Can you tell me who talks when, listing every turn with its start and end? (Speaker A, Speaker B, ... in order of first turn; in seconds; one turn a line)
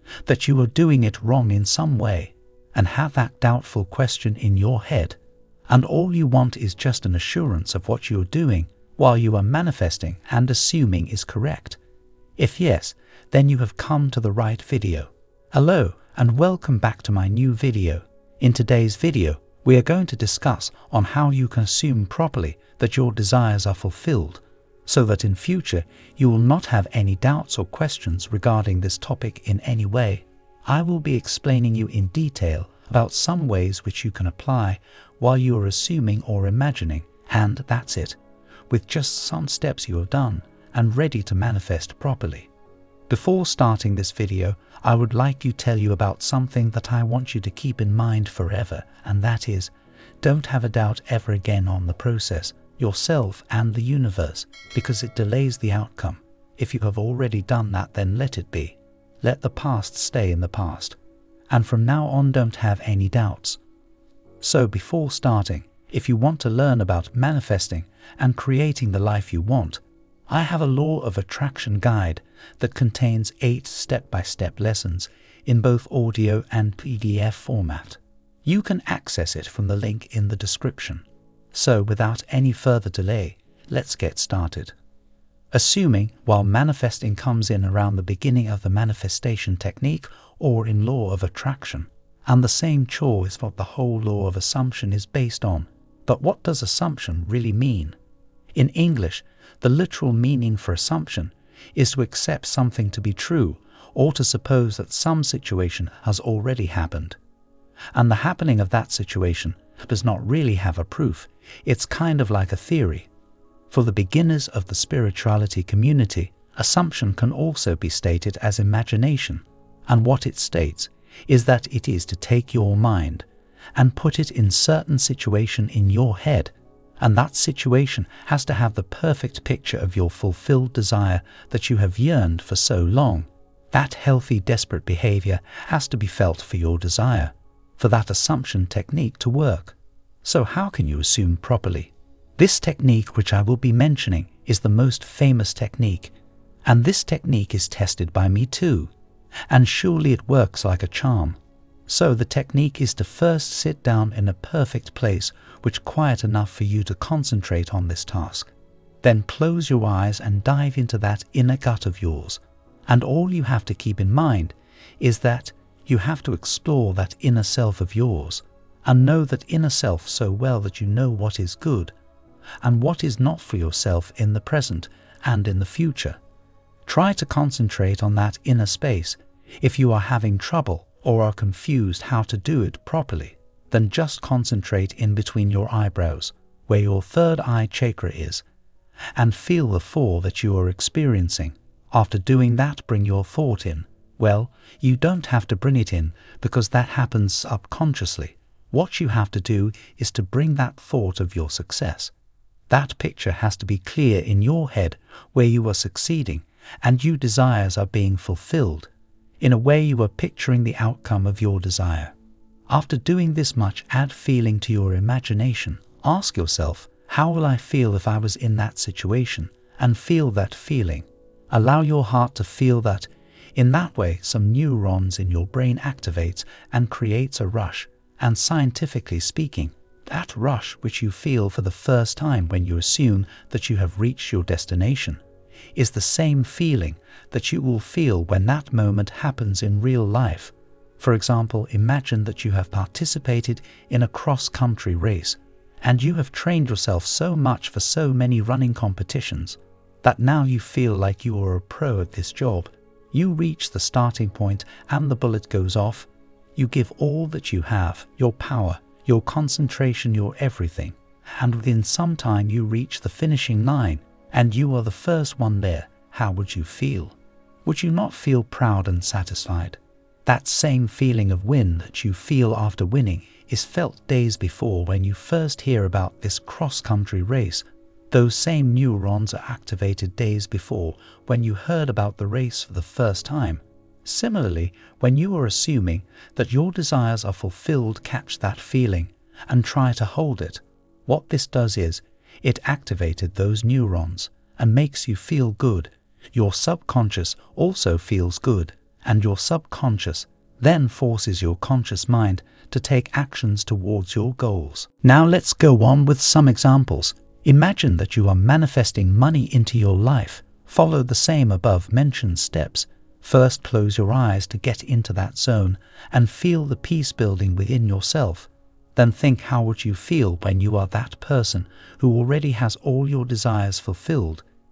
Speaker A: 0.3-5.2
Speaker A: 5.7-11.8
Speaker A: 12.4-38.2
Speaker A: 38.7-42.5
Speaker A: 43.1-61.0
Speaker A: 61.5-63.6
Speaker A: 64.4-84.8
Speaker A: 85.5-98.0
Speaker A: 98.5-107.2
Speaker A: 107.9-113.1
Speaker A: 113.7-146.1
Speaker A: 146.7-148.9
Speaker A: 149.5-158.5
Speaker A: 159.0-171.9
Speaker A: 172.6-176.2
Speaker A: 176.9-188.4
Speaker A: 189.2-202.1
Speaker A: 202.7-208.9
Speaker A: 209.4-212.1
Speaker A: 212.7-235.2
Speaker A: 235.8-324.4